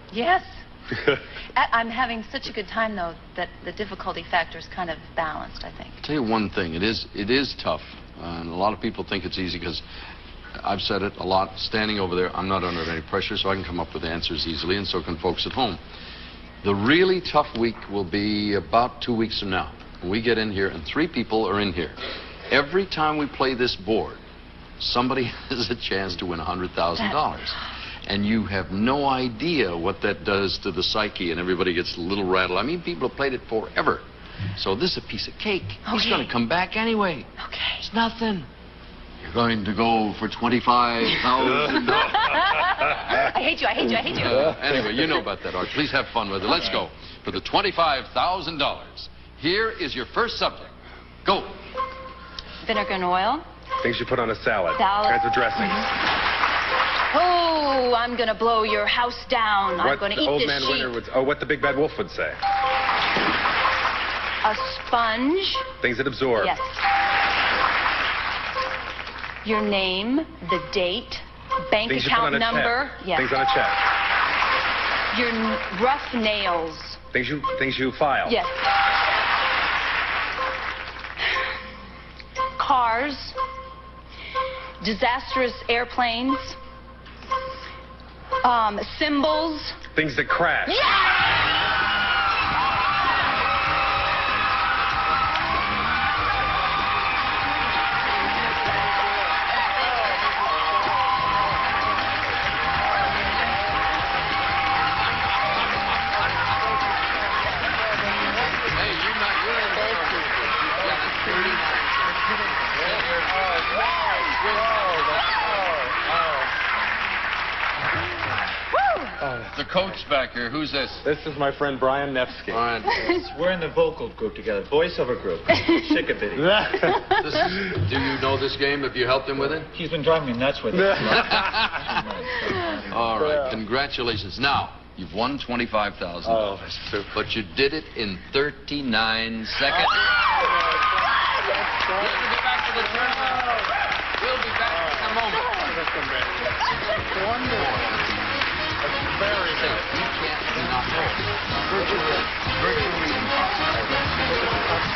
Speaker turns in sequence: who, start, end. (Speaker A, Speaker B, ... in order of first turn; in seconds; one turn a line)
Speaker A: 0.1-0.5
Speaker A: 1.5-6.0
Speaker B: 6.0-9.8
Speaker B: 10.6-15.8
Speaker B: 16.6-21.9
Speaker B: 22.5-24.2
Speaker B: 24.8-34.0
Speaker B: 34.5-37.3
Speaker A: 35.8-36.3
Speaker A: 37.4-37.9
Speaker B: 37.8-38.5
Speaker B: 39.2-43.3
Speaker A: 41.9-44.5
Speaker B: 44.1-50.7
Speaker B: 51.2-51.5
Speaker A: 52.6-53.4
Speaker C: 53.8-55.9
Speaker A: 54.8-55.9
Speaker A: 57.1-61.0
Speaker C: 59.8-62.4
Speaker A: 64.4-65.7
Speaker C: 65.8-66.5
Speaker A: 66.4-66.7
Speaker A: 69.4-73.2
Speaker C: 71.8-73.8
Speaker A: 75.1-77.0
Speaker C: 77.1-78.3
Speaker A: 78.2-78.6
Speaker A: 82.6-83.3
Speaker A: 84.8-86.6
Speaker A: 88.4-89.8
Speaker C: 89.9-90.8
Speaker A: 90.7-91.1
Speaker B: 108.6-115.5
Speaker C: 115.4-116.5
Speaker A: 118.7-119.1
Speaker C: 119.2-119.5
Speaker B: 119.5-121.0
Speaker C: 121.0-122.6
Speaker B: 122.5-123.1
Speaker D: 122.9-126.9
Speaker C: 126.3-127.0
Speaker B: 127.0-129.7
Speaker D: 129.7-133.1
Speaker B: 131.1-131.9
Speaker B: 132.8-136.5
Speaker C: 133.2-133.6
Speaker C: 136.2-137.2
Speaker B: 137.1-140.1
Speaker B: 141.8-145.8
Speaker B: 147.1-148.3
Speaker C: 148.9-149.7
Speaker B: 149.2-154.4